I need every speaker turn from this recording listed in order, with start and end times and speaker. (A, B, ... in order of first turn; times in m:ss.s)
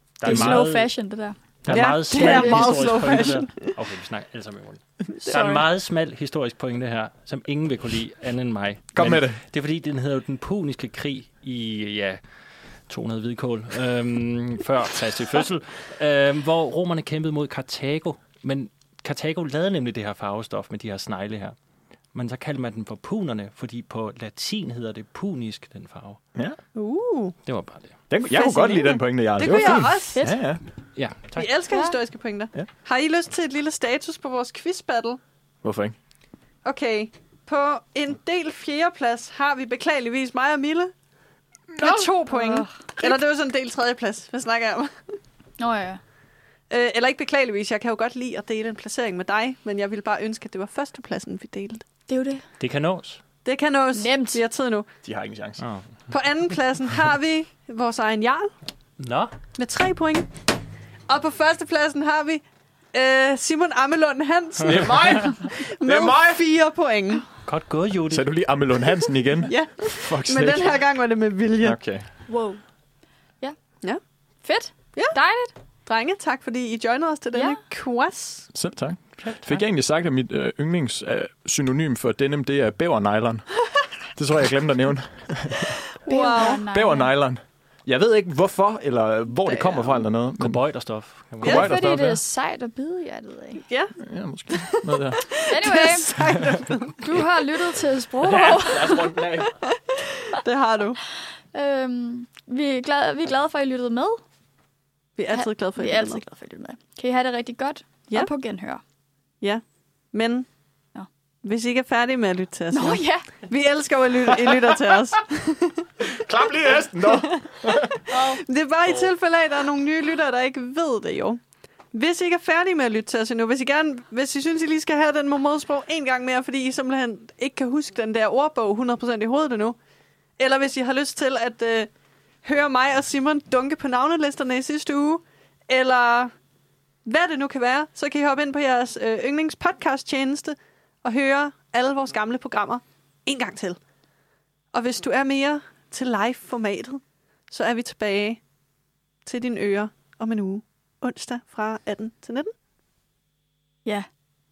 0:00.2-0:01.0 A
0:00.2-0:00.6 B
0:00.2-0:01.4 C
0:01.6-0:21.6 A
0:01.7-0:03.8 D
0:02.0-0:02.8 C
0:05.2-0:05.5 D
0:05.3-0:05.6 C
0:08.9-0:09.4 B
0:22.1-0:26.2 A
0:26.8-0:27.4 D
0:27.4-0:28.1 A
0:28.1-0:30.6 B
0:28.3-0:30.2 D
0:30.1-0:30.4 C
0:31.0-0:31.5 A
0:31.4-0:35.2 D
0:31.7-0:32.0 C
0:35.6-0:36.0 B
0:36.6-0:40.9 D
0:41.8-0:45.2 D
0:41.8-0:42.8 C
0:45.6-0:46.0 C
0:46.7-0:51.8 D
0:52.1-0:52.4 C
0:52.6-0:53.2 A
0:53.4-0:54.9 D
0:53.9-0:54.4 C
0:55.0-0:55.6 B
0:55.6-0:56.0 A
0:56.1-0:58.5 D
0:59.0-0:59.3 A
0:59.6-1:00.4 D
1:01.1-1:07.3 D
1:04.6-1:06.3 B
1:07.4-1:08.3 A
1:08.1-1:10.8 B
1:09.5-1:11.8 D
1:11.6-1:12.1 B
1:12.3-1:12.6 C
1:14.4-1:15.5 C
1:15.8-1:18.5 D
1:18.5-1:30.6 B
1:19.2-1:19.6 A
1:26.0-1:26.6 D
1:26.1-1:27.1 C
1:29.5-1:29.8 D
1:30.4-1:31.7 A
1:31.4-1:32.2 B
1:31.4-1:33.6 C
1:33.6-1:34.0 D
1:34.0-1:35.4 B
1:34.5-1:37.3 D
1:35.5-1:36.1 C
1:37.0-1:39.1 C
1:38.2-1:39.6 B
1:39.4-1:41.0 D
1:41.5-1:44.2 C
1:45.2-1:46.2 D
1:45.3-1:48.8 C
1:49.4-1:50.5 D
1:51.4-1:55.9 D
1:52.7-1:53.3 C
1:56.0-1:58.4 B
1:57.0-2:01.4 D
2:01.9-2:09.8 D
2:10.4-2:11.9 D
2:12.4-2:16.3 D
2:17.0-2:23.8 D
2:24.7-2:28.4 D
2:29.2-2:32.5 D